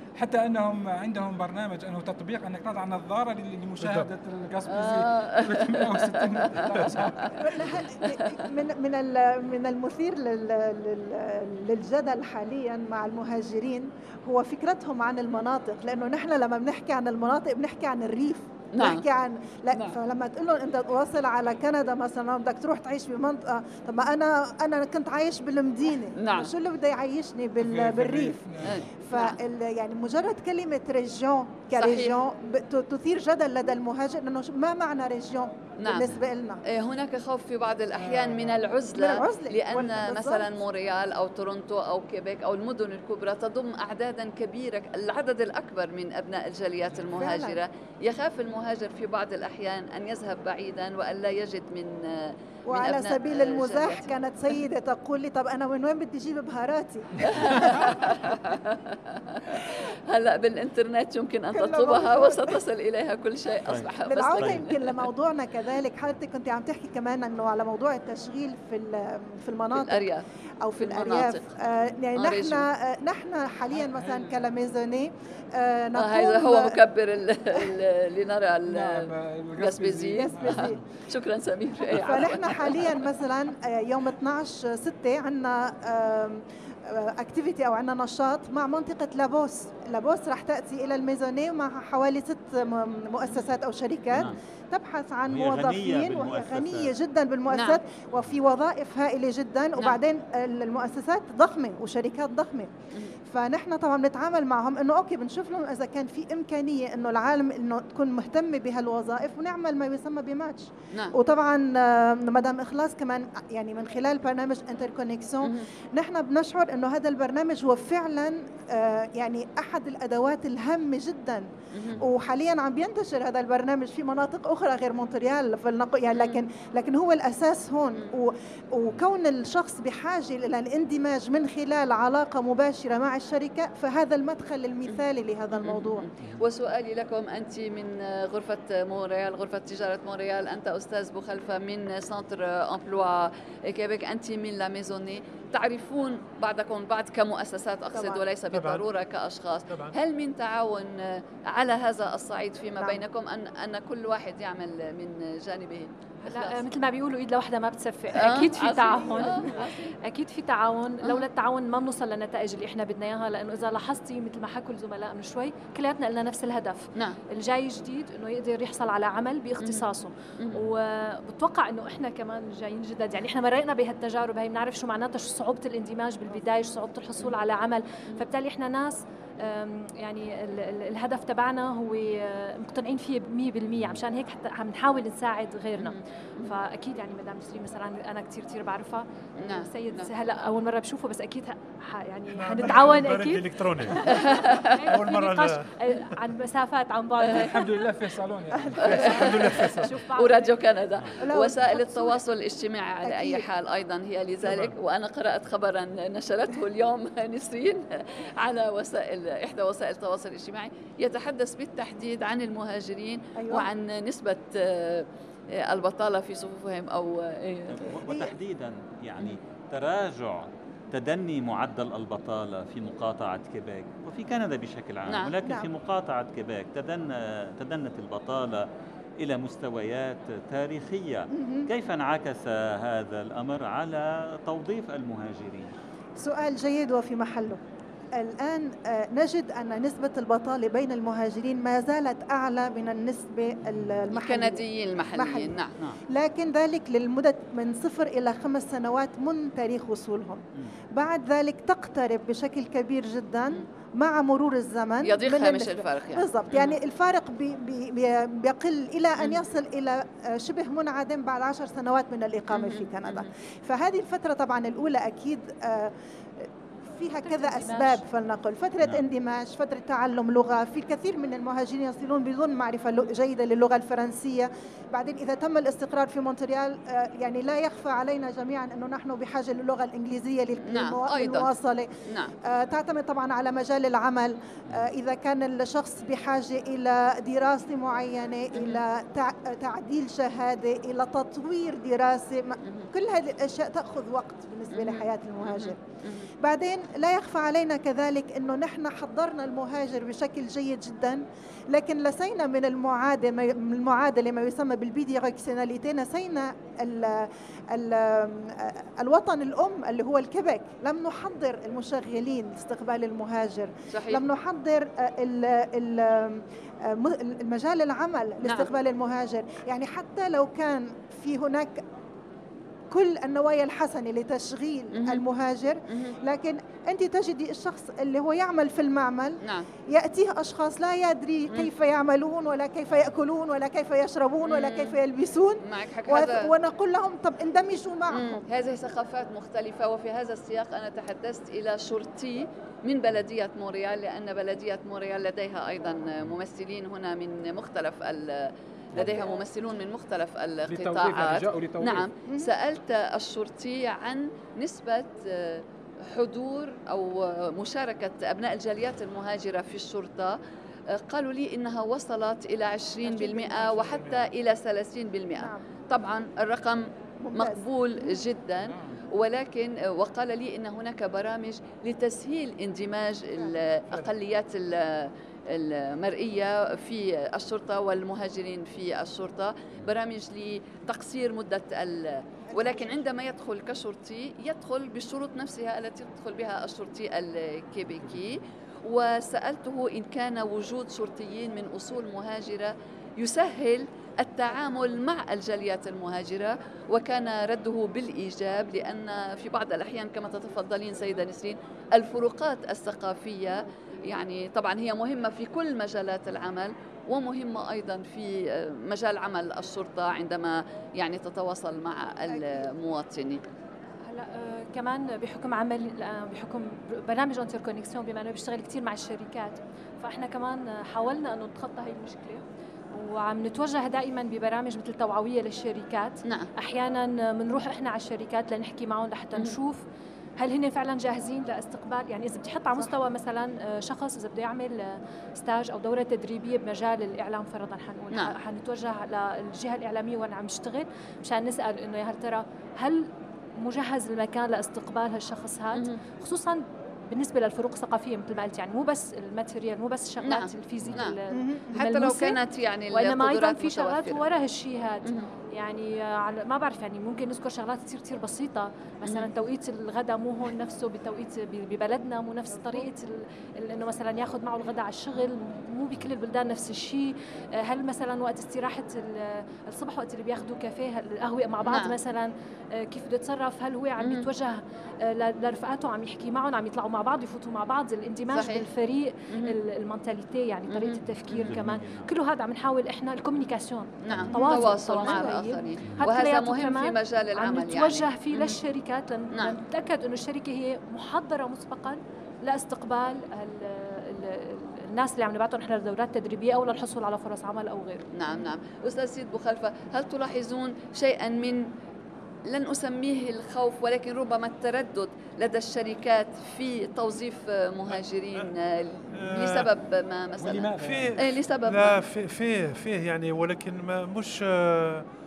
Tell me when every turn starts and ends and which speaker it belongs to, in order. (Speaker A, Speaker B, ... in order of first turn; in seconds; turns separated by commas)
Speaker A: 0.1-7.8, Speaker B: 3.8-4.1, Speaker C: 4.7-7.3, Speaker B: 6.7-7.0, Speaker D: 7.4-36.6, Speaker C: 8.0-8.4, Speaker C: 18.7-19.0, Speaker C: 19.7-20.0, Speaker C: 26.1-26.5, Speaker A: 27.6-28.8, Speaker C: 28.6-29.4, Speaker C: 31.8-32.1, Speaker C: 35.8-54.1, Speaker A: 38.0-38.6, Speaker D: 38.9-40.5, Speaker E: 39.8-40.1, Speaker D: 47.1-47.6, Speaker D: 52.7-57.9, Speaker C: 57.2-65.1, Speaker D: 61.5-62.6, Speaker E: 63.6-64.7, Speaker D: 64.0-70.1, Speaker C: 69.7-70.2, Speaker D: 70.6-76.8, Speaker C: 70.8-71.4, Speaker C: 72.2-72.7, Speaker A: 73.7-74.4, Speaker C: 76.0-83.0, Speaker A: 78.7-80.8, Speaker D: 80.4-80.8, Speaker D: 81.9-102.7, Speaker E: 94.1-94.4, Speaker E: 95.3-97.0, Speaker C: 97.5-97.8, Speaker D: 103.2-136.1, Speaker C: 121.7-122.0, Speaker C: 126.1-126.4, Speaker C: 135.5-156.6, Speaker D: 147.9-148.2, Speaker B: 148.5-148.9, Speaker B: 149.7-149.9, Speaker D: 152.8-153.0, Speaker F: 156.2-197.7, Speaker C: 158.1-159.9, Speaker C: 169.6-169.8, Speaker C: 185.8-186.6, Speaker C: 189.4-190.1, Speaker B: 192.3-194.1, Speaker C: 194.1-194.9, Speaker B: 194.9-196.1, Speaker A: 197.3-199.0, Speaker D: 198.8-199.1, Speaker C: 198.8-199.4, Speaker B: 198.8-199.9, Speaker F: 198.9-200.5, Speaker C: 200.1-217.9, Speaker D: 201.2-202.2, Speaker D: 203.0-203.5, Speaker B: 204.4-204.7, Speaker D: 213.3-213.7, Speaker E: 217.7-228.7, Speaker D: 218.1-218.4, Speaker C: 225.1-225.3, Speaker D: 225.4-225.7, Speaker E: 229.2-235.7, Speaker D: 231.3-231.7, Speaker D: 236.2-237.6, Speaker D: 238.1-245.6, Speaker C: 244.1-245.7, Speaker D: 246.1-281.9, Speaker C: 255.0-256.8, Speaker C: 262.5-263.3, Speaker F: 267.2-268.0, Speaker C: 280.6-281.5, Speaker C: 282.1-282.3, Speaker D: 282.4-321.8, Speaker C: 288.5-288.8, Speaker C: 294.7-296.3, Speaker C: 313.9-314.2, Speaker C: 318.4-318.7, Speaker D: 322.9-338.4, Speaker C: 324.9-325.2, Speaker C: 329.4-329.7, Speaker C: 334.4-335.0, Speaker C: 335.6-336.5, Speaker C: 338.1-360.4, Speaker D: 349.0-349.5, Speaker A: 350.7-352.1, Speaker D: 352.2-352.5, Speaker C: 360.9-413.4, Speaker B: 363.0-364.3, Speaker D: 363.2-363.7, Speaker D: 365.3-365.7, Speaker D: 367.2-368.2, Speaker A: 368.6-369.0, Speaker D: 382.5-383.1, Speaker D: 412.3-412.7, Speaker F: 414.0-429.8, Speaker F: 430.4-452.4, Speaker C: 450.2-451.2, Speaker D: 451.3-451.7, Speaker C: 451.7-454.2, Speaker F: 452.9-498.1, Speaker C: 471.6-471.9, Speaker C: 474.0-474.2, Speaker C: 478.3-478.6, Speaker C: 480.7-481.6, Speaker E: 481.4-482.1, Speaker C: 484.0-488.6, Speaker D: 484.3-485.3, Speaker C: 498.1-501.7, Speaker C: 502.5-512.0, Speaker B: 507.9-508.5, Speaker B: 509.1-509.7, Speaker A: 510.4-511.2, Speaker B: 510.8-515.0